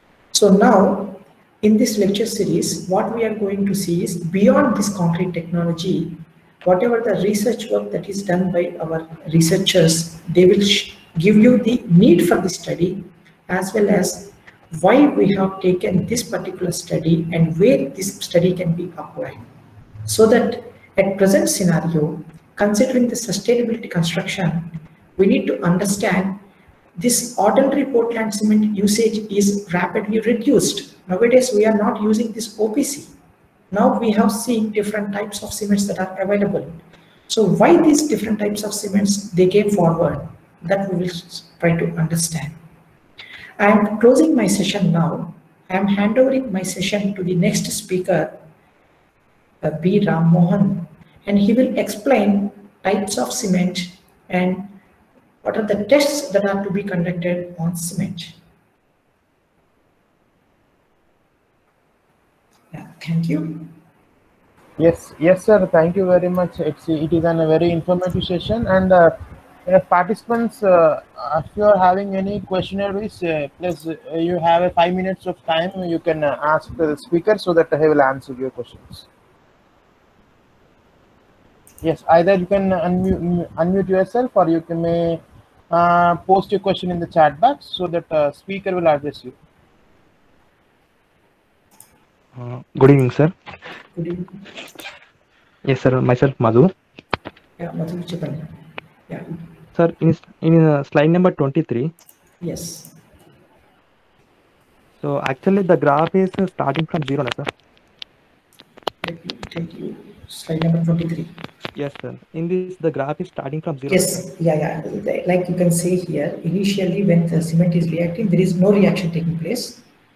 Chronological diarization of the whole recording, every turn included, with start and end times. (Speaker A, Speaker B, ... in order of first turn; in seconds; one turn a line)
Speaker A: 0.3-19.4
Speaker A: 20.1-26.4
Speaker A: 27.0-33.1
Speaker A: 33.7-36.8
Speaker A: 37.3-42.6
Speaker A: 43.6-48.4
Speaker A: 49.6-54.8
Speaker A: 55.4-58.4
Speaker A: 62.7-63.7
Speaker B: 64.8-79.1
Speaker B: 81.8-89.4
Speaker C: 92.4-93.3
Speaker A: 94.0-94.4
Speaker C: 95.7-96.7
Speaker A: 97.6-98.5
Speaker A: 99.1-99.3
Speaker C: 99.8-101.9
Speaker A: 102.4-102.9
Speaker C: 105.0-107.5
Speaker A: 109.0-111.3
Speaker C: 111.8-114.2
Speaker A: 113.9-119.8